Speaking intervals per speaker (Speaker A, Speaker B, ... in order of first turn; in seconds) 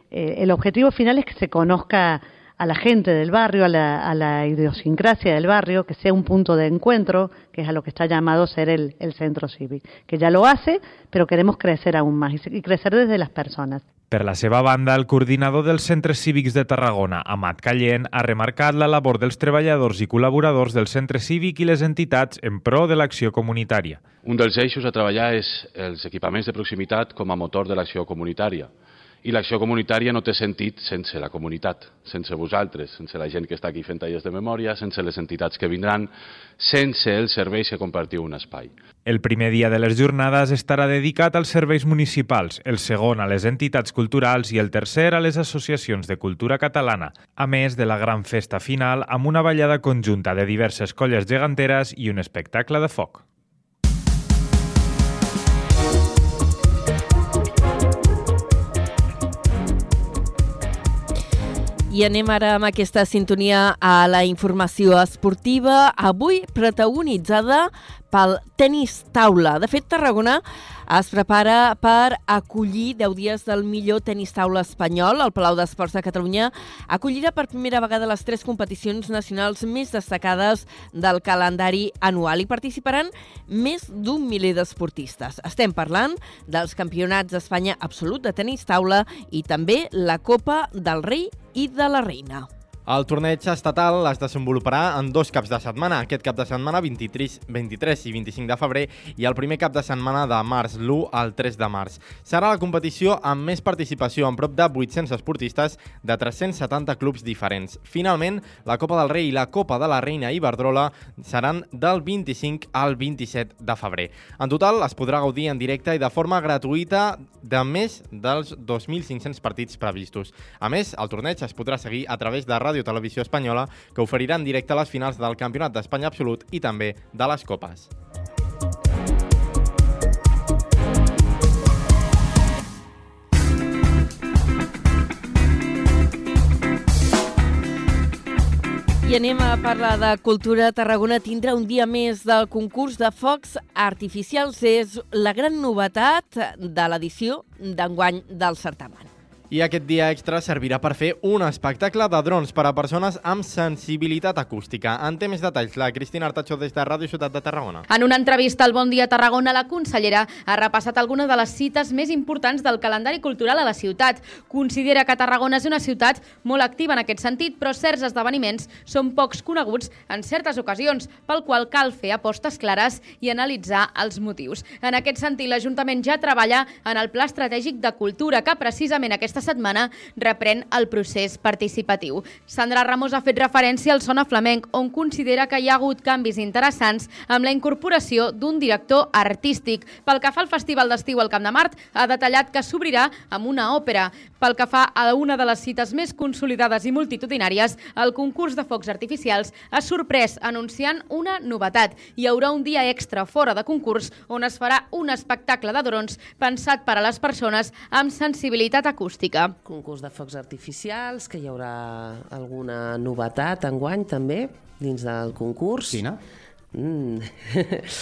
Speaker A: 0.1-13.8
Speaker B: 14.1-24.1, 39.0-53.2
Speaker C: 24.2-28.7, 29.2-38.7
Speaker D: 61.9-92.5, 139.0-149.1
Speaker E: 92.9-127.9, 149.5-157.8
Speaker F: 157.9-209.5
Speaker G: 209.6-216.1, 216.7-217.8